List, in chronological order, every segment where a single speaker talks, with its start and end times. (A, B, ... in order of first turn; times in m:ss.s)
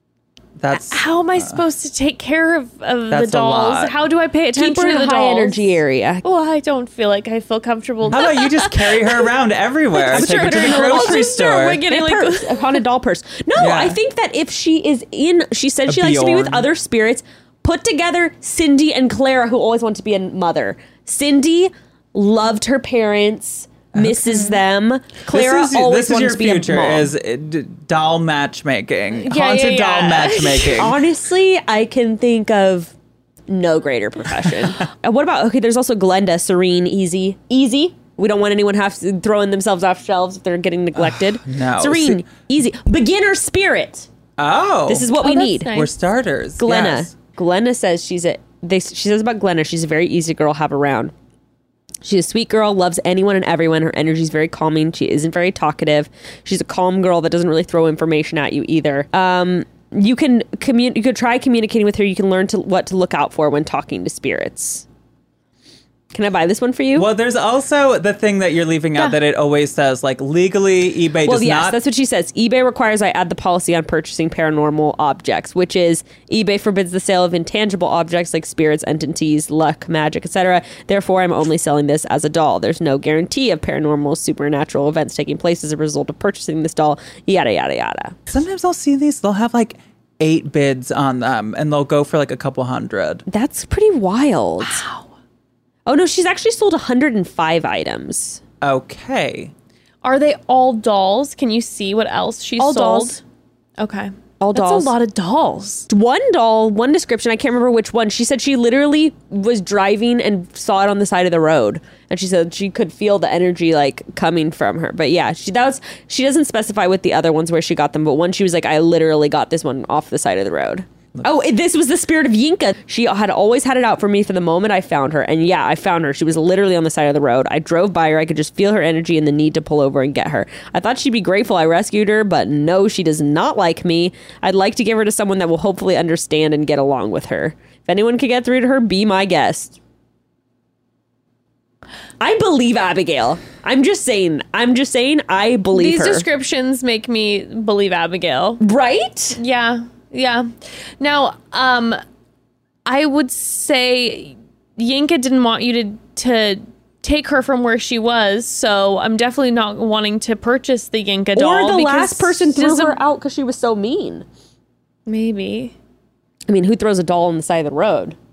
0:00.6-0:01.6 A
0:00.8-0:09.3 B
0:03.1-0:03.9 A
0:04.6-0:06.2 C
0:08.1-0:11.8 A
0:10.0-0:12.8 B
0:10.1-0:27.1 C
0:13.6-0:14.0 A
0:15.9-0:16.7 A
0:23.9-0:24.2 A
0:25.2-0:31.0 A
0:29.2-0:30.9 B
0:30.8-0:32.9 C
0:33.5-0:44.1 C
0:41.0-0:42.2 A
0:44.4-0:45.1 A
0:44.9-0:45.8 C
0:45.2-0:45.9 B
0:45.7-0:47.1 A
0:46.6-0:51.1 C
0:52.0-1:04.8 C
1:06.1-1:07.1 C
1:06.9-1:11.8 A
1:11.2-1:28.2 C
1:28.3-1:33.2 A
1:33.3-1:34.8 C
1:34.6-1:35.1 B
1:35.9-1:38.4 C
1:38.6-1:39.5 A
1:40.0-1:43.2 B
1:42.6-1:43.2 C
1:43.8-1:45.9 B
1:44.4-1:44.9 C
1:45.9-2:19.8 C
2:22.2-2:26.3 C
2:25.7-2:28.6 B
2:28.6-2:29.4 C
2:29.4-2:32.0 B
2:32.9-2:43.0 B
2:41.4-2:44.2 C
2:45.1-2:45.8 B
2:46.5-2:48.2 C